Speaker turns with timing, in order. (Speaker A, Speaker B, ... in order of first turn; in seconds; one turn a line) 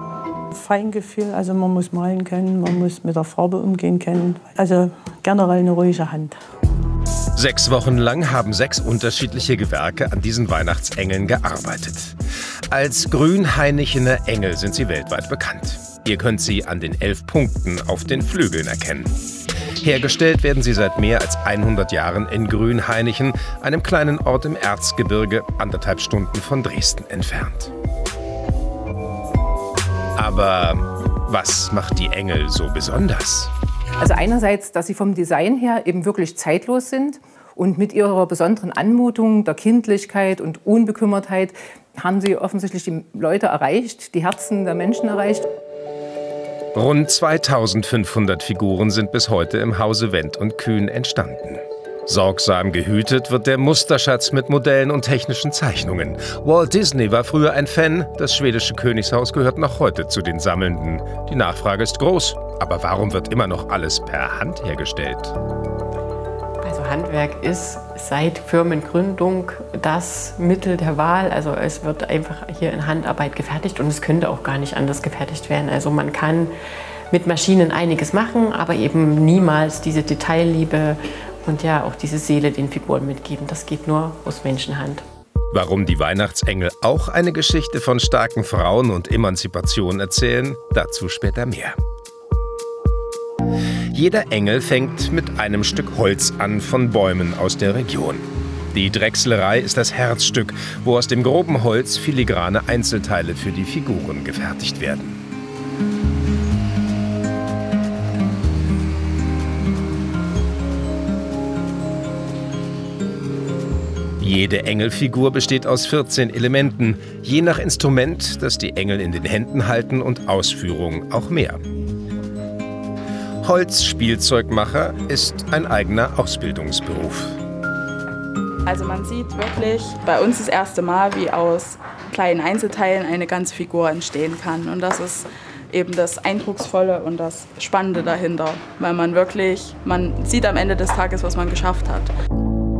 Speaker A: 0.5-6.4
Speaker B: 7.3-12.2
Speaker B: 12.7-19.1
Speaker B: 19.8-27.7
Speaker B: 30.2-33.5
Speaker C: 34.0-45.5
Speaker B: 46.7-65.4
Speaker D: 66.6-76.5
Speaker D: 77.1-85.0
Speaker B: 85.5-91.8
Speaker B: 93.9-105.2
Speaker B: 114.2-121.6
Speaker B: 123.4-127.4
Speaker E: 128.7-142.1